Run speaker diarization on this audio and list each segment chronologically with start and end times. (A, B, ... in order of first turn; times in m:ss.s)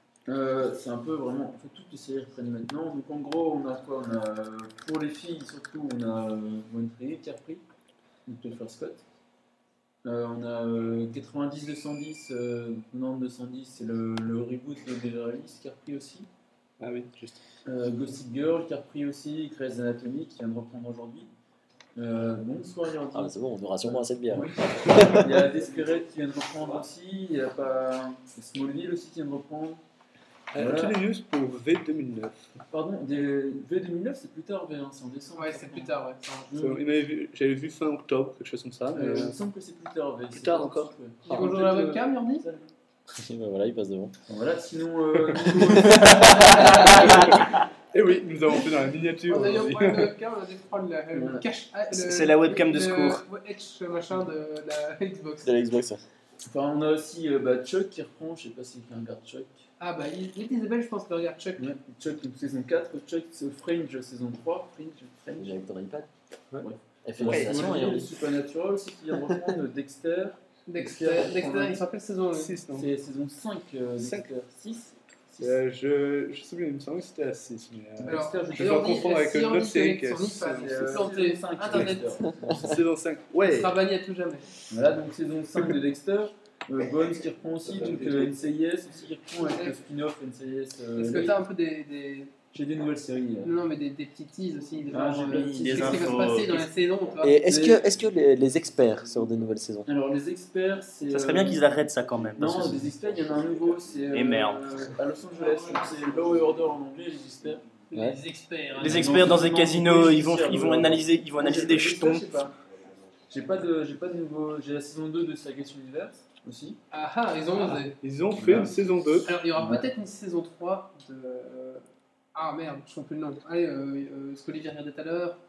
0:00.3-0:07.6 A
0:08.2-0:09.0 A
0:10.0-0:16.3 A
0:16.8-0:17.4 B
0:17.6-0:21.3 A
0:22.0-0:29.8 A
0:23.1-0:25.5 C
0:30.5-0:32.4 B
0:30.5-0:31.0 A
0:32.7-0:36.0 A
0:35.4-0:36.5 D
0:36.5-0:36.8 A
0:36.5-0:39.4 B
0:38.9-0:42.7 A
0:40.3-0:42.0 B
0:41.3-0:42.4 D
0:43.1-0:44.1 C
0:44.3-0:47.4 A
0:45.6-0:46.8 C
0:46.2-0:47.4 D
0:46.9-0:47.2 B
0:47.9-0:50.1 B
0:49.3-0:55.5 D
0:51.1-0:51.4 A
0:51.9-0:53.2 E
0:55.4-0:56.0 C
0:56.4-0:59.6 A
0:59.8-1:01.7 D
1:01.6-1:05.5 A
1:05.4-1:06.1 C
1:06.6-1:11.8 A
1:07.0-1:08.1 C
1:07.2-1:07.8 B
1:09.2-1:09.4 C
1:10.7-1:12.5 D
1:12.3-1:12.9 B
1:12.7-1:15.6 A
1:14.0-1:14.3 B
1:15.4-1:21.0 B
1:18.0-1:19.0 A
1:18.0-1:22.2 D
1:20.4-1:22.8 A
1:22.5-1:23.8 B
1:23.4-1:24.5 D
1:24.7-1:31.4 A
1:27.6-1:28.4 B
1:29.4-1:29.8 D
1:30.9-1:32.3 D
1:32.5-1:33.5 A
1:33.4-1:37.4 D
1:34.9-1:36.4 A
1:35.6-1:36.6 E
1:37.2-1:39.9 C
1:37.4-1:37.8 A
1:39.8-1:41.8 A
1:41.1-1:42.8 E
1:42.3-1:47.6 A
1:44.1-1:44.6 E
1:47.9-1:49.3 D
1:47.9-1:48.2 C
1:48.8-1:52.5 A
1:48.8-1:52.2 E
1:53.3-1:56.8 A
1:56.9-1:58.0 D
1:57.8-1:59.3 B
1:58.3-1:58.8 A
1:59.2-2:05.4 D
1:59.6-1:59.9 A